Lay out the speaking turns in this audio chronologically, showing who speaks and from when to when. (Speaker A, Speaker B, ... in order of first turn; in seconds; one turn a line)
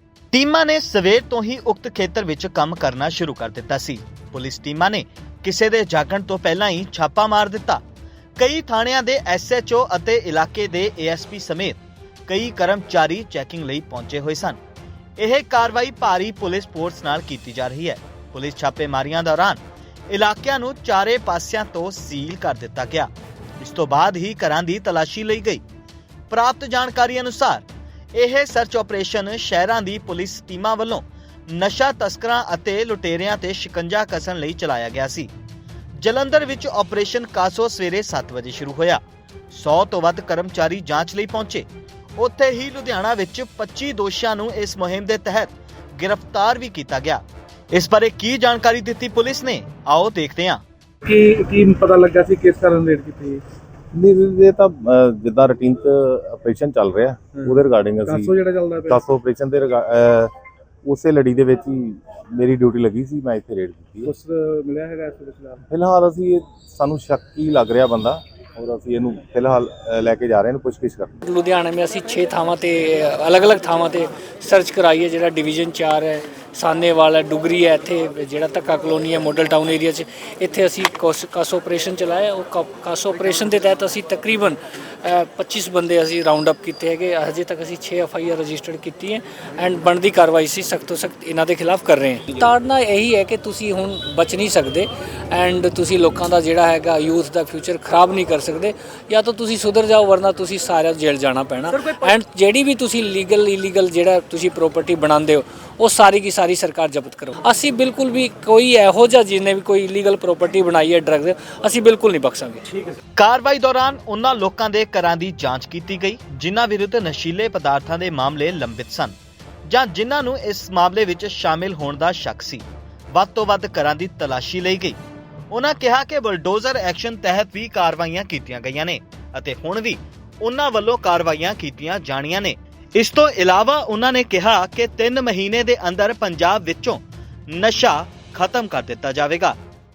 Speaker A: 0.3-7.8
Speaker A: 8.4-14.6
Speaker A: 15.2-25.6
Speaker A: 26.3-27.6
Speaker A: 28.2-35.3
Speaker A: 36.0-50.6
Speaker B: 51.0-53.4
Speaker C: 53.9-60.3
Speaker B: 57.4-59.0
Speaker C: 60.8-64.2
Speaker B: 64.1-65.6
Speaker C: 65.7-71.2
Speaker D: 71.2-112.8
Speaker A: 113.2-119.2
Speaker A: 119.7-125.0
Speaker A: 125.5-139.6